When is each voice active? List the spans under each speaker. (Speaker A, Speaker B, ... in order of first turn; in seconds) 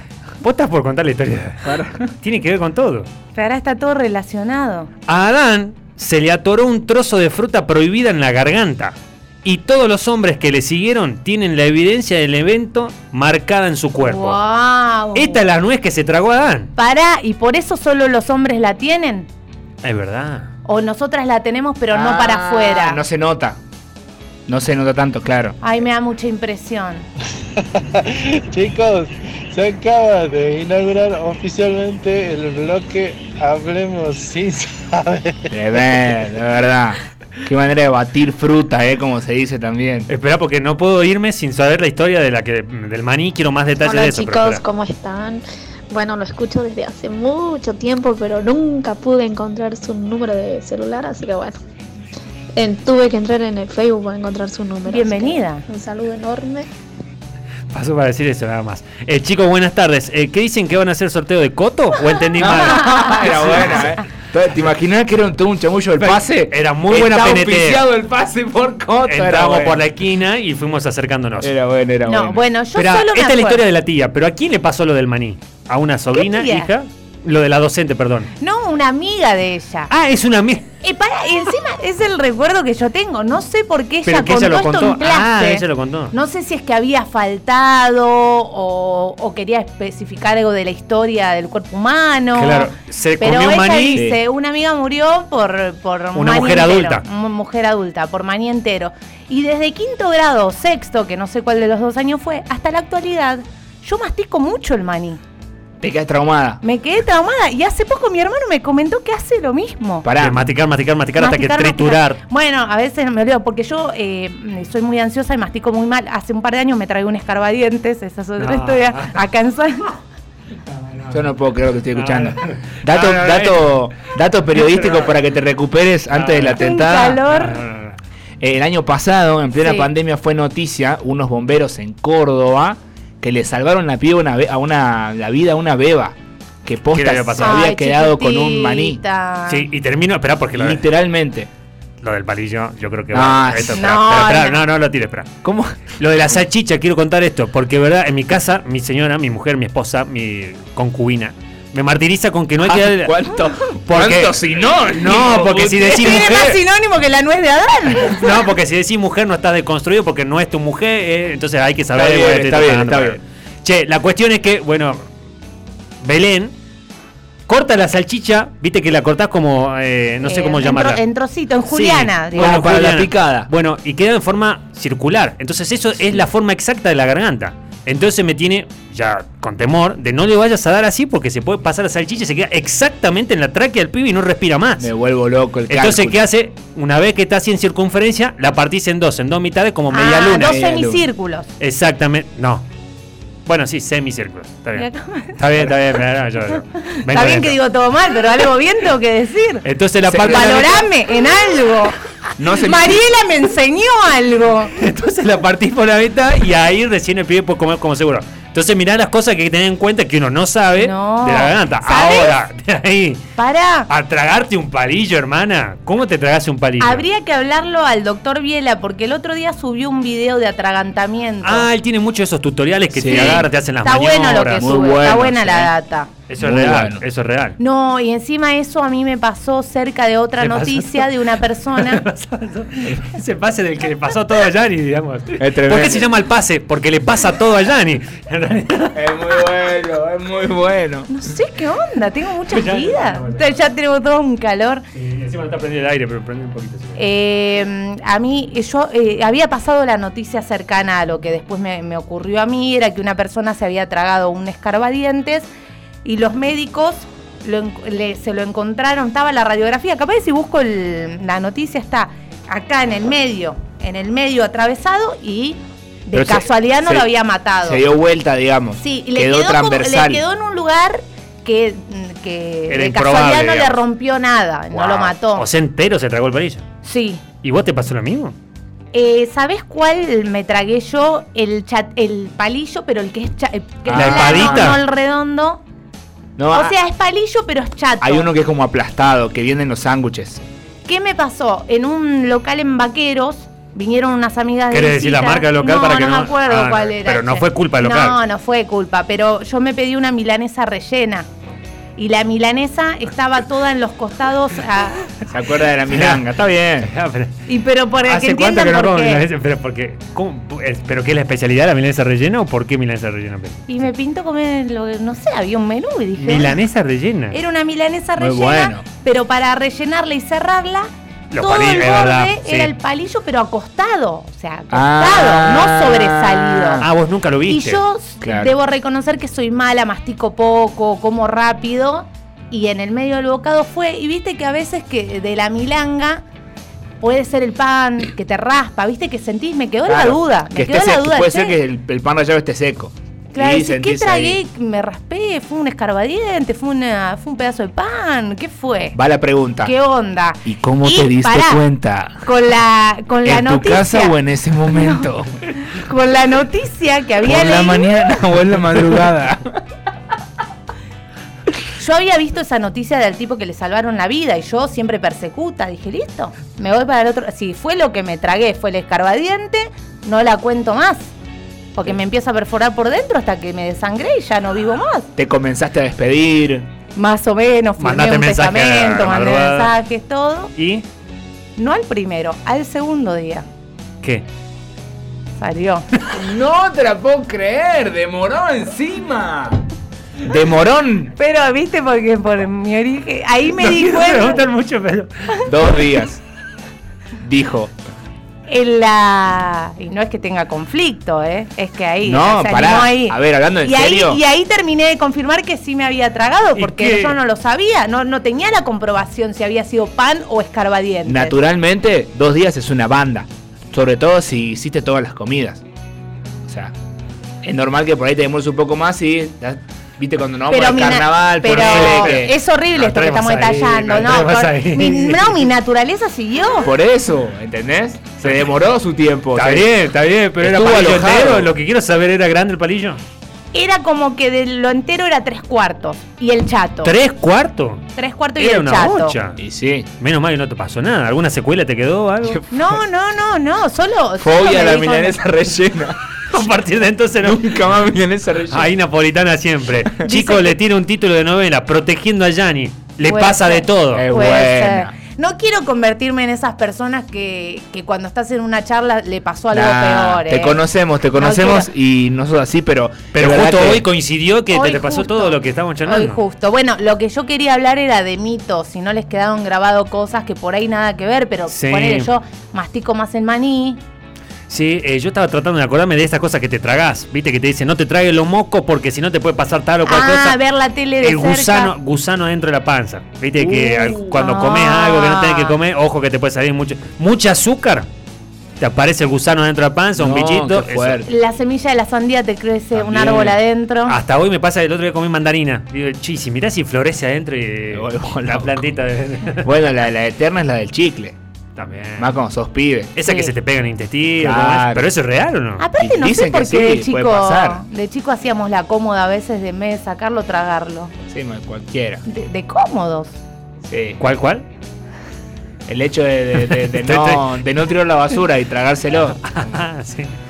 Speaker A: 0.4-1.7, 2.2-3.1, 5.1-14.4, 15.2-16.7, 19.8-20.5, 40.1-44.6, 57.7-63.8, 66.0-67.8, 69.1-71.5, 72.8-78.3, 79.9-80.7, 84.1-86.1, 92.3-94.0, 96.2-97.0, 110.2-112.2, 118.4-119.2, 122.0-123.8, 124.5-125.1, 126.1-126.5, 127.3-128.0, 136.9-137.6, 139.5-140.8, 142.0-145.3, 146.0-153.3, 153.9-154.4, 154.9-156.4, 158.0-165.1, 166.0-166.5, 167.5-171.0, 171.7-184.9, 185.7-190.6, 191.6-192.7, 193.5-197.6, 199.6-200.8, 204.8-213.2, 213.9-217.1, 221.4-224.8, 226.3-227.6, 230.4-231.1, 231.8-239.0, 242.5-243.5, 244.9-247.0, 272.7-273.8, 274.8-276.6, 277.4-278.4, 283.9-284.8, 294.7-298.2, 305.9-306.2, 306.8-307.4, 308.1-313.7, 316.2-317.4, 321.3-322.7, 326.8-327.8, 377.8-379.7, 380.6-380.8, 393.6-395.1, 406.6-407.2, 421.5-425.5, 429.4-433.0, 436.8-437.8, 438.4-439.4, 440.0-442.4, 446.3-447.4, 448.5-454.1, 463.1-466.2, 471.5-472.1, 474.5-480.4, 481.0-487.9, 488.6-491.0, 492.9-493.3, 493.9-499.5, 501.6-502.1, 502.9-505.6, 514.0-514.5, 516.6-517.2, 519.2-520.1
Speaker B: 1.6-2.1, 21.9-23.6, 24.5-25.6, 35.5-40.1, 62.4-69.8, 71.4-72.4, 94.0-94.2, 105.8-106.6, 110.0-110.5, 121.1-127.3, 128.4-139.0, 140.5-141.5, 143.1-143.9, 145.4-145.8, 152.6-156.6, 161.9-163.2, 172.3-173.5, 184.8-186.2, 190.4-191.1, 200.1-200.8, 202.4-203.0, 222.9-223.5, 224.6-225.7, 226.4-227.0, 235.4-236.1, 238.9-241.1, 266.1-267.1, 267.6-270.2, 283.9-284.8, 286.4-286.8, 288.0-290.4, 305.3-306.9, 318.2-318.8, 324.7-326.9, 328.2-328.6, 339.9-344.4, 348.9-349.7, 350.4-352.2, 353.2-355.3, 357.2-359.6, 375.2-376.7, 386.1-389.6, 390.2-391.1, 395.5-396.2, 397.2-397.7, 402.0-404.2, 411.1-415.6, 416.5-416.7, 417.4-422.3, 426.6-429.7, 430.4-431.5, 439.4-439.9, 442.2-442.8, 444.2-446.0, 447.2-448.7, 453.9-454.9, 459.5-463.9, 483.4-483.9, 490.0-491.1, 492.9-493.3, 497.7-498.7, 499.4-501.2, 502.0-502.9, 504.2-504.9, 505.8-507.6, 511.1-512.0, 513.6-514.0, 515.7-519.4
Speaker C: 3.4-4.9, 14.0-15.4, 16.8-19.3, 20.7-23.0, 25.6-27.1, 54.9-55.6, 72.1-73.6, 76.2-76.7, 78.4-79.9, 80.8-105.2, 106.6-110.0, 111.2-119.9, 126.5-127.5, 129.6-129.9, 137.4-139.7, 143.8-144.6, 155.9-158.3, 170.2-172.7, 189.9-191.5, 194.8-195.4, 196.8-199.6, 200.2-202.0, 202.5-204.7, 210.8-212.4, 213.4-213.9, 216.8-221.7, 223.1-226.1, 227.6-232.0, 241.1-244.8, 247.0-255.5, 256.1-267.8, 268.8-275.5, 276.8-277.2, 278.9-285.6, 286.5-288.3, 290.9-301.3, 302.0-305.2, 307.5-309.2, 313.7-316.6, 317.3-326.8, 327.5-336.2, 337.0-341.6, 343.4-349.0, 349.6-351.6, 352.2-354.2, 354.7-355.1, 355.6-358.2, 361.8-371.1, 371.8-375.1, 377.0-380.5, 381.6-383.4, 385.4-385.9, 391.2-394.4, 398.5-411.4, 420.5-426.7, 433.5-436.9, 438.0-439.1, 442.5-445.2, 450.1-450.5, 453.0-460.6, 461.2-461.7, 464.5-473.8, 479.9-481.7, 483.5-485.6, 491.1-494.0, 503.1-503.3, 505.6-510.9, 512.1-513.1
Speaker D: 27.6-35.5
Speaker E: 43.8-51.6, 52.6-56.7